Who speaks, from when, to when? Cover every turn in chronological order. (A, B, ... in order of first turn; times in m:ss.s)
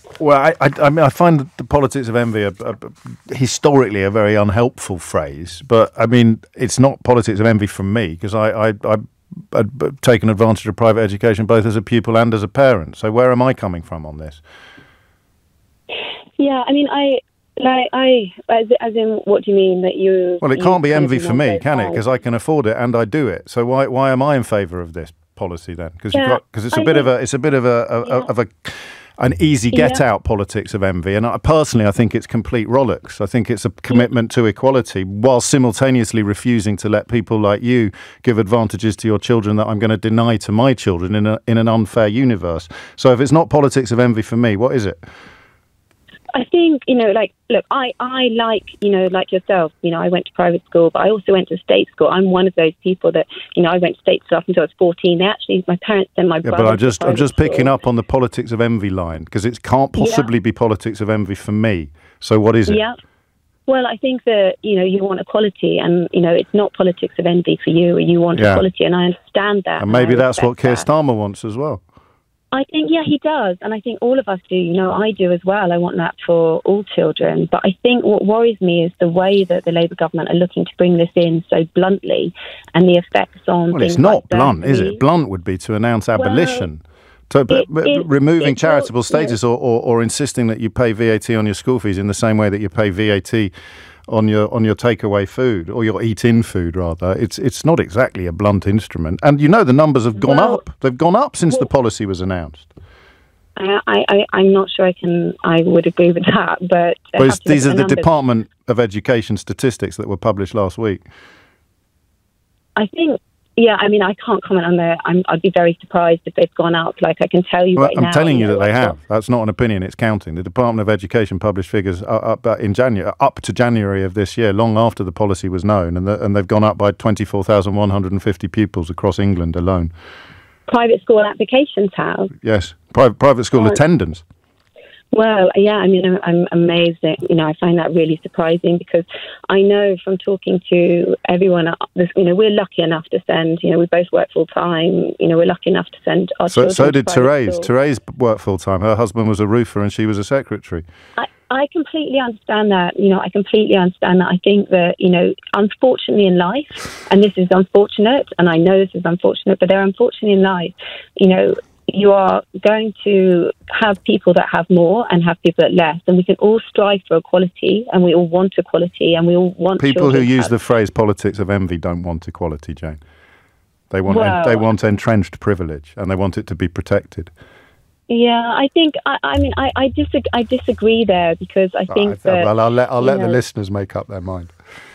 0:00.2-0:14.4 A
0:16.4-0:22.1 B
0:20.4-0:45.0 A
0:26.1-0:27.1 B
0:28.0-0:28.3 B
0:29.7-0:30.0 B
0:46.3-0:57.8 B
0:56.4-1:02.8 A
1:00.0-1:00.3 B
1:02.7-1:03.0 B
1:03.7-1:10.8 B
1:08.4-1:08.6 A
1:09.8-1:11.8 A
1:12.5-1:25.0 B
1:23.7-1:33.5 A
1:26.2-1:26.7 B
1:27.5-1:29.4 B
1:34.1-1:42.7 A
1:40.2-1:40.6 B
1:43.6-1:48.1 B
1:47.2-1:51.0 A
1:52.8-1:59.0 B
1:57.7-2:09.9 A
2:10.7-2:12.3 B
2:12.4-2:14.2 A
2:15.1-2:27.7 B
2:26.5-2:30.8 A
2:31.2-2:50.5 B
2:49.8-2:53.0 A
2:53.9-2:57.3 A
2:54.0-2:54.7 B
2:58.1-3:03.4 B
3:01.9-3:04.5 A